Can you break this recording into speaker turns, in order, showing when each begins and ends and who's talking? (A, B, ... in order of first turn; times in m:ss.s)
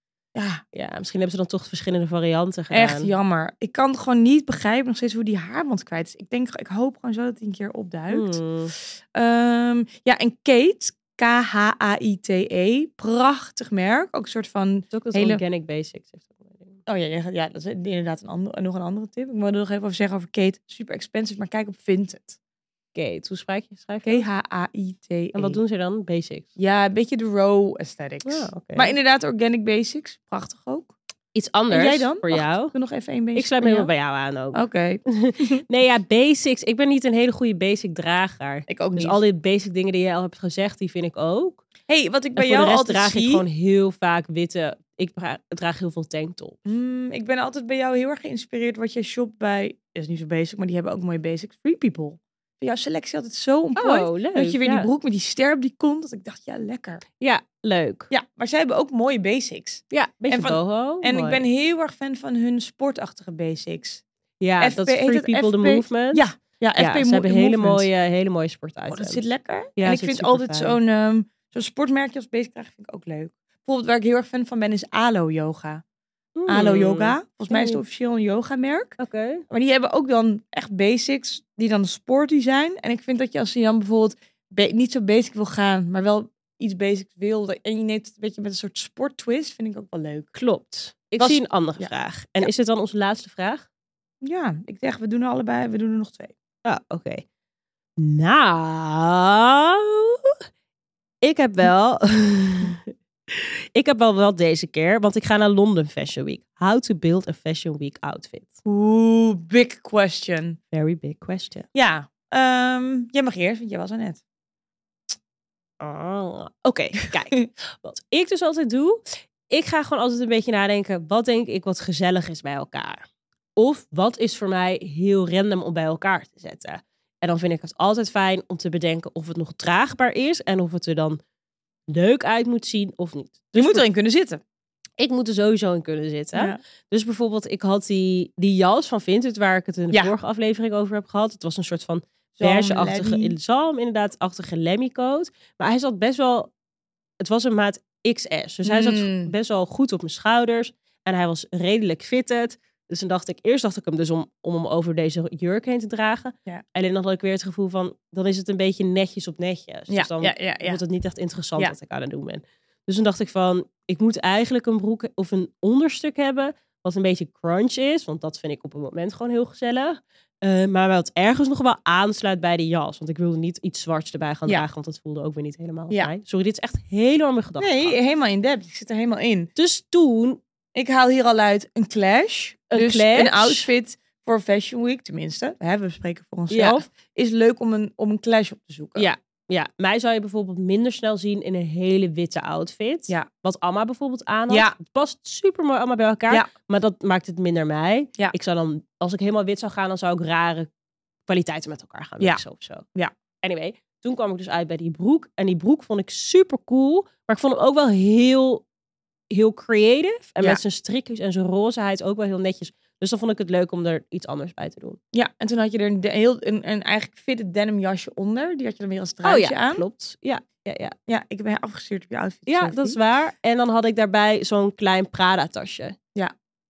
0:00.3-0:00.6 A
0:00.7-0:03.1 B
0:02.7-0:08.4 A
0:08.1-0:08.7 B
0:09.1-0:15.4 A
0:14.9-0:16.8 B
0:16.8-0:22.4 A
0:22.9-0:24.2 B
0:24.0-0:25.6 A
0:25.3-0:26.5 B
0:26.6-0:30.9 A
0:28.2-0:28.9 B
0:31.3-0:32.7 B
0:31.7-0:33.9 A
0:33.3-0:41.6 B
0:34.5-0:35.6 A
0:38.7-0:39.2 A
0:41.9-0:43.4 A
0:42.4-0:46.6 B
0:46.6-0:57.0 A
0:53.8-0:54.9 B
0:57.2-0:58.1 B
0:58.1-1:04.0 A
0:59.9-1:01.4 B
1:04.4-1:06.2 B
1:04.6-1:07.9 A
1:06.8-1:09.2 B
1:08.9-1:15.8 A
1:09.8-1:10.8 B
1:16.4-1:17.8 B
1:16.5-1:19.0 A
1:19.0-1:19.4 B
1:19.5-1:30.3 A
1:30.3-1:33.6 B
1:31.2-1:32.5 A
1:34.2-1:36.3 A
1:36.6-1:37.2 B
1:38.0-1:40.3 B
1:41.2-1:48.6 B
1:48.6-1:50.6 A
1:50.7-1:51.7 B
1:51.7-1:54.2 A
1:55.8-2:03.0 B
2:03.6-2:11.2 B
2:11.9-2:13.8 B
2:13.5-2:14.4 A
2:15.0-2:26.5 B
2:22.4-2:23.4 A
2:27.2-2:58.0 B
2:28.6-2:29.3 A
2:39.9-2:40.8 A
2:57.6-2:59.5 A
2:59.6-3:00.4 B
3:00.7-3:09.1 A
3:02.7-3:03.7 B
3:06.5-3:06.8 B
3:09.0-3:20.7 B
3:14.5-3:14.8 A
3:21.3-3:22.8 B
3:23.4-3:28.6 B
3:29.3-3:35.0 B
3:35.1-3:39.8 A
3:39.2-3:40.9 B
3:41.1-3:43.0 A
3:42.5-3:46.0 B